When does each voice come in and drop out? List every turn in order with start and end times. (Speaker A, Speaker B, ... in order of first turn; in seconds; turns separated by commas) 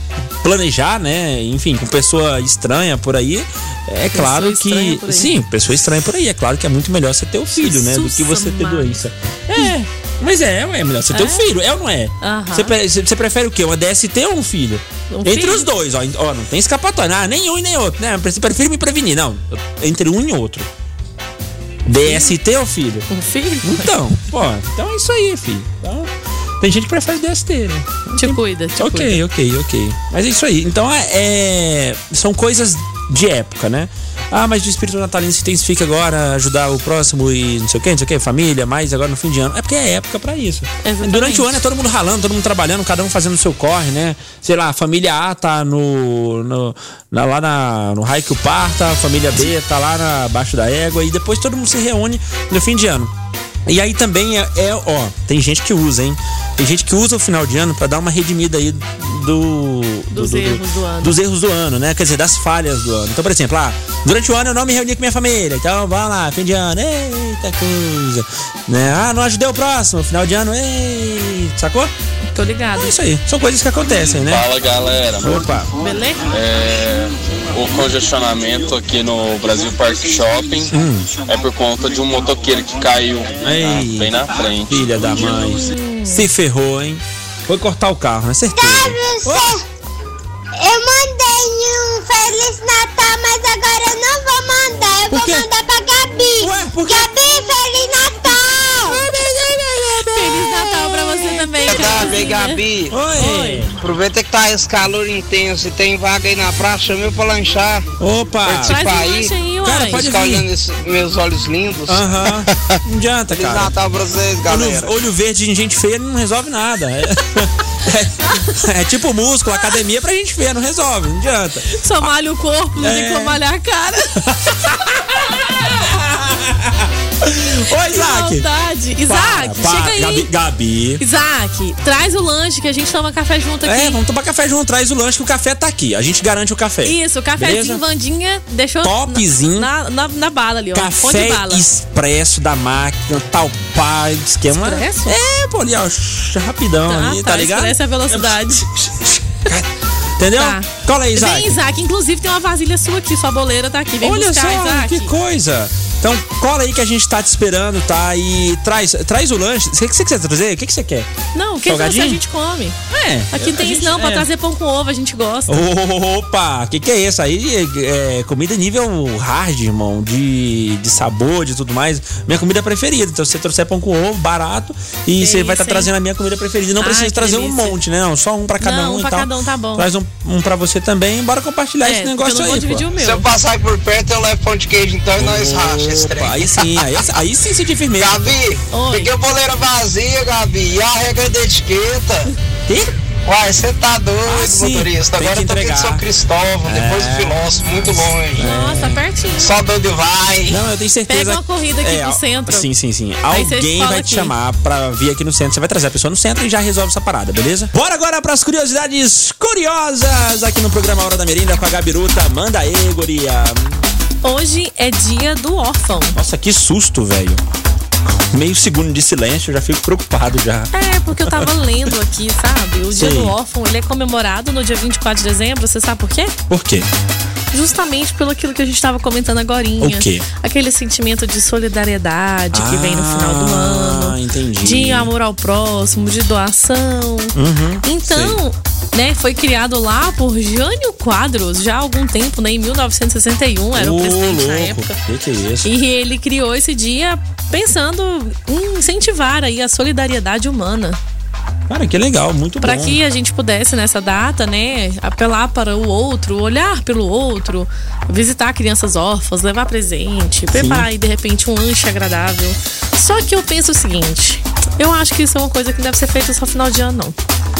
Speaker A: 0.4-20.7, Speaker B: 4.1-5.3, Speaker B: 7.5-9.0, Speaker B: 11.1-11.4, Speaker B: 12.2-12.7, Speaker B: 15.1-15.7, Speaker A: 21.9-23.1, Speaker B: 22.0-22.3, Speaker B: 23.1-23.9, Speaker A: 23.6-53.1, Speaker B: 28.1-29.2, Speaker B: 40.8-41.6, Speaker A: 53.6-71.9, Speaker B: 60.1-61.1, Speaker B: 72.3-72.9, Speaker A: 72.8-74.5, Speaker C: 74.2-75.4, Speaker A: 75.2-75.7, Speaker B: 75.8-76.3, Speaker C: 76.3-84.8, Speaker A: 80.7-81.1, Speaker A: 83.4-89.6, Speaker B: 85.1-86.2, Speaker D: 88.5-89.6, Speaker D: 90.6-100.0, Speaker A: 95.1-95.5, Speaker A: 96.4-97.1, Speaker A: 98.8-102.2, Speaker B: 100.1-102.6, Speaker E: 101.7-102.9, Speaker A: 102.9-103.8, Speaker B: 103.1-103.7, Speaker E: 103.8-107.8, Speaker A: 108.0-109.0, Speaker E: 108.4-112.5, Speaker B: 108.5-110.1, Speaker A: 109.6-110.5, Speaker A: 111.9-113.7, Speaker E: 113.3-114.9, Speaker A: 114.5-122.1, Speaker B: 121.7-124.6, Speaker A: 122.8-123.4, Speaker A: 124.2-128.5, Speaker B: 127.7-130.3, Speaker A: 129.1-131.0, Speaker B: 131.0-134.0, Speaker A: 133.6-137.8, Speaker B: 136.8-141.6, Speaker A: 138.8-139.7, Speaker A: 140.7-149.7, Speaker B: 144.5-145.2, Speaker B: 146.9-148.7, Speaker A: 150.2-151.6, Speaker B: 150.3-155.1, Speaker A: 154.0-161.1, Speaker B: 161.3-162.8, Speaker A: 161.7-162.2, Speaker A: 162.9-164.3, Speaker B: 163.3-165.6, Speaker A: 165.5-182.9, Speaker B: 175.2-175.9, Speaker B: 176.8-177.8, Speaker B: 178.6-179.9, Speaker B: 181.8-183.3, Speaker E: 182.9-187.0, Speaker A: 185.2-188.3, Speaker E: 188.0-192.3, Speaker B: 188.7-189.1, Speaker A: 192.7-192.9, Speaker E: 193.2-198.5, Speaker A: 194.2-196.1, Speaker A: 196.6-199.0, Speaker B: 198.4-199.6, Speaker E: 199.4-200.6, Speaker A: 200.5-213.9, Speaker B: 201.1-202.7, Speaker B: 203.3-204.3, Speaker B: 214.2-216.2, Speaker A: 216.1-217.4, Speaker A: 218.3-221.5, Speaker B: 220.7-226.4, Speaker A: 222.9-223.3, Speaker A: 226.5-226.9, Speaker B: 227.5-245.0, Speaker A: 229.8-230.2, Speaker A: 232.5-235.1, Speaker A: 237.3-238.4, Speaker A: 243.8-245.7, Speaker B: 245.6-251.0, Speaker A: 251.7-253.0, Speaker B: 252.6-267.1, Speaker A: 260.5-260.9